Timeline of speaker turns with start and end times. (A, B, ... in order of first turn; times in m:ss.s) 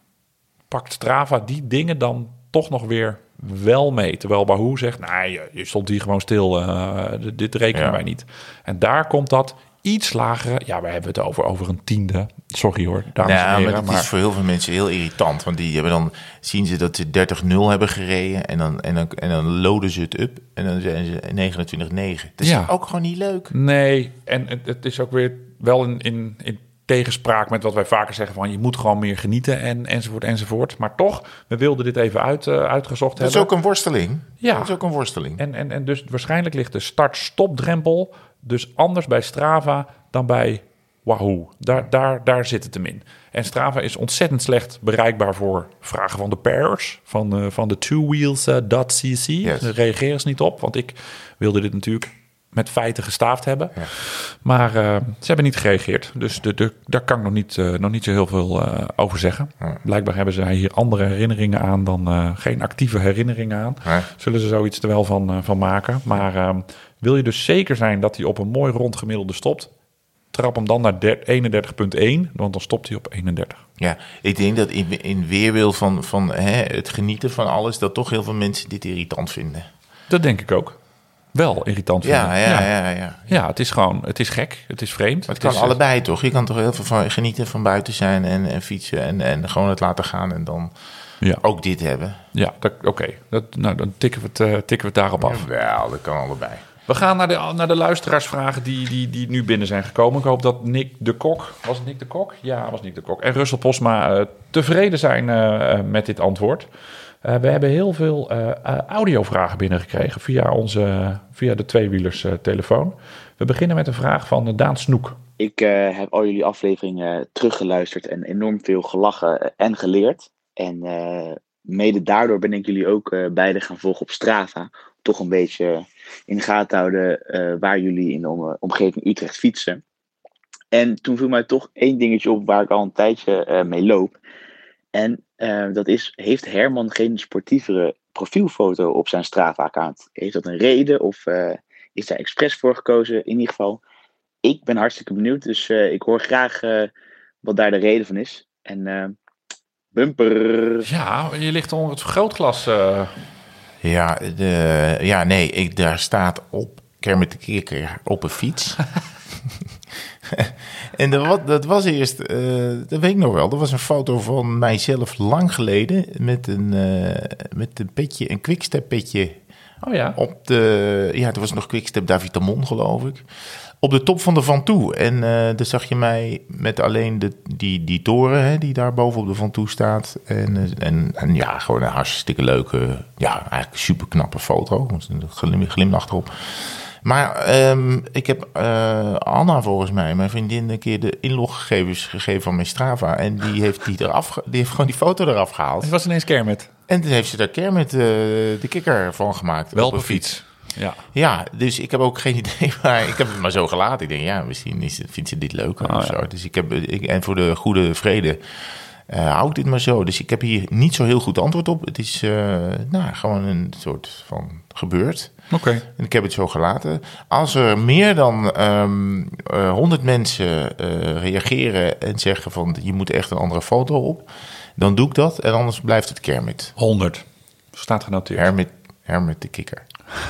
0:00.7-0:14.1 A
0:13.2-0:23.5 B
0:22.4-0:22.7 A
0:23.5-0:33.5 A
0:33.2-0:35.4 B
0:34.4-0:34.7 A
0:35.4-1:09.7 A
0:49.4-0:49.7 B
1:10.3-1:13.6 A
1:13.8-1:19.7 B
1:20.1-1:20.8 A
1:21.3-1:22.7 A
1:22.0-1:23.4 B
1:23.3-1:25.8 A
1:25.3-1:30.7 B
1:31.4-1:32.2 B
1:32.3-1:35.4 A
1:35.2-1:36.6 B
1:36.9-1:46.7 A
1:47.2-1:55.2 A
1:55.4-2:09.8 C
2:10.7-2:14.1 C
2:14.9-2:23.8 C
2:24.4-2:26.9 C
2:27.4-2:29.1 C
2:29.9-2:30.8 C
2:30.8-2:33.1 A
2:33.8-2:38.8 B
2:40.2-2:49.4 B
2:49.8-2:50.2 A
2:50.2-2:53.2 B
2:53.8-3:15.9 B
3:15.8-3:16.7 A
3:16.9-3:20.3 B
3:19.7-3:21.0 A
3:21.1-3:28.4 B
3:25.8-3:26.2 A
3:29.1-3:35.3 B
3:35.5-3:35.8 A
3:35.9-3:44.2 B
3:44.8-3:46.7 B
3:46.8-3:48.5 A
3:48.3-3:49.8 B